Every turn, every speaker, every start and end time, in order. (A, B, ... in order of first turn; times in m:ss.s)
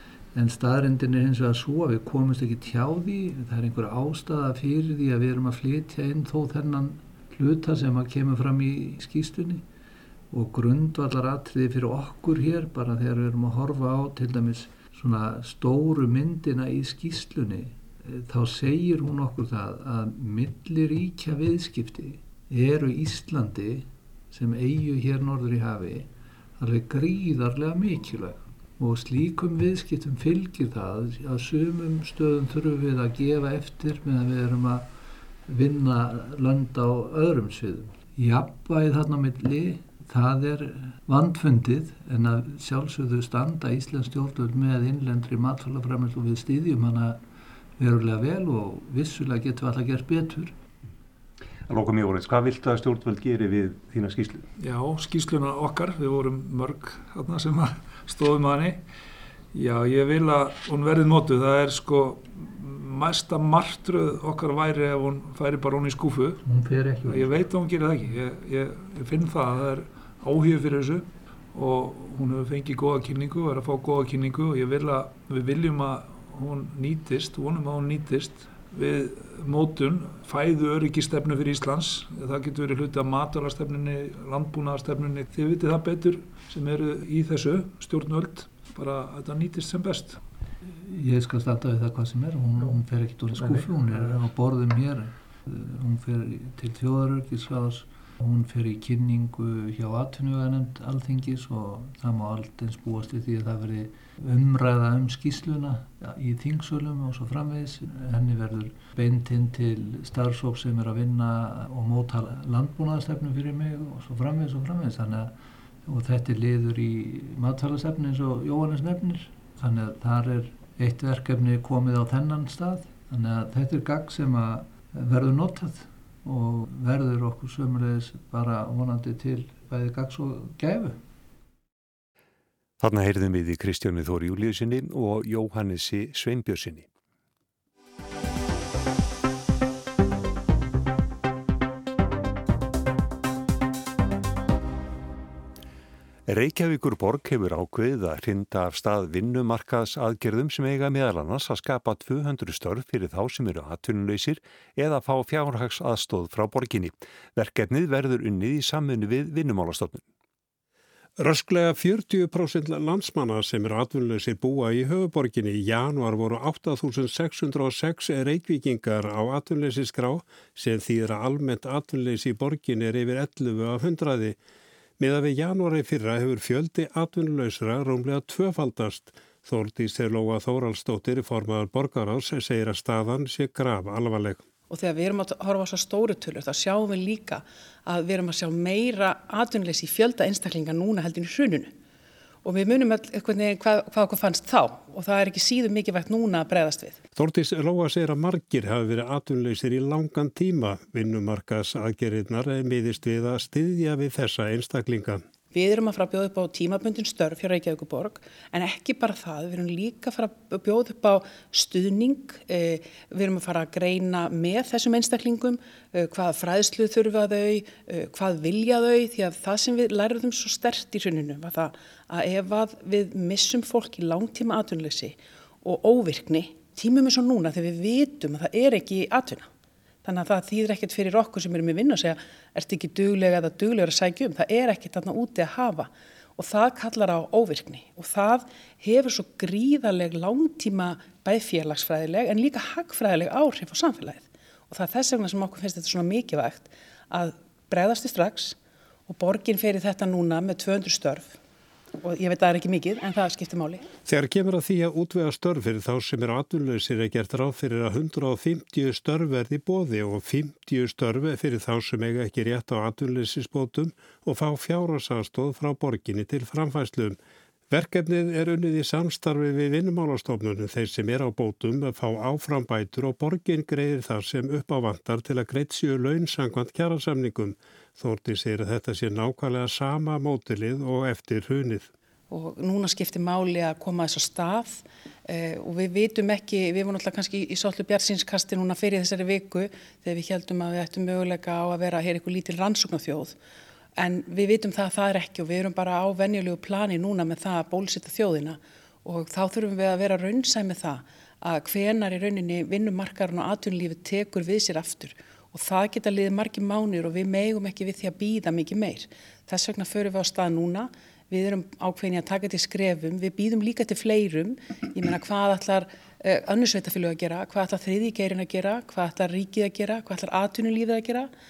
0:00.3-0:09.6 A
0:10.3-0:34.9 A
0:35.5-0:47.2 A
0:47.8-0:50.5 A
0:51.7-0:54.5 B
0:54.6-0:58.8 C
0:59.5-1:06.4 C
1:06.4-1:07.4 A
1:07.0-1:30.2 C
1:30.8-1:55.3 A
1:33.4-1:33.6 C
1:55.8-2:11.0 A
2:12.8-2:16.9 B
2:26.3-2:40.0 B
2:41.2-2:54.4 D
2:55.0-3:04.4 D
3:04.7-3:11.7 E
3:12.4-3:17.0 E
3:17.1-3:25.2 D
3:25.5-3:49.5 E
3:50.0-4:08.6 E
4:09.1-4:11.4 E
4:12.0-4:13.9 E
4:14.0-4:27.2 D
4:27.7-4:41.9 D
4:42.3-4:53.4 E
4:54.0-5:21.3 E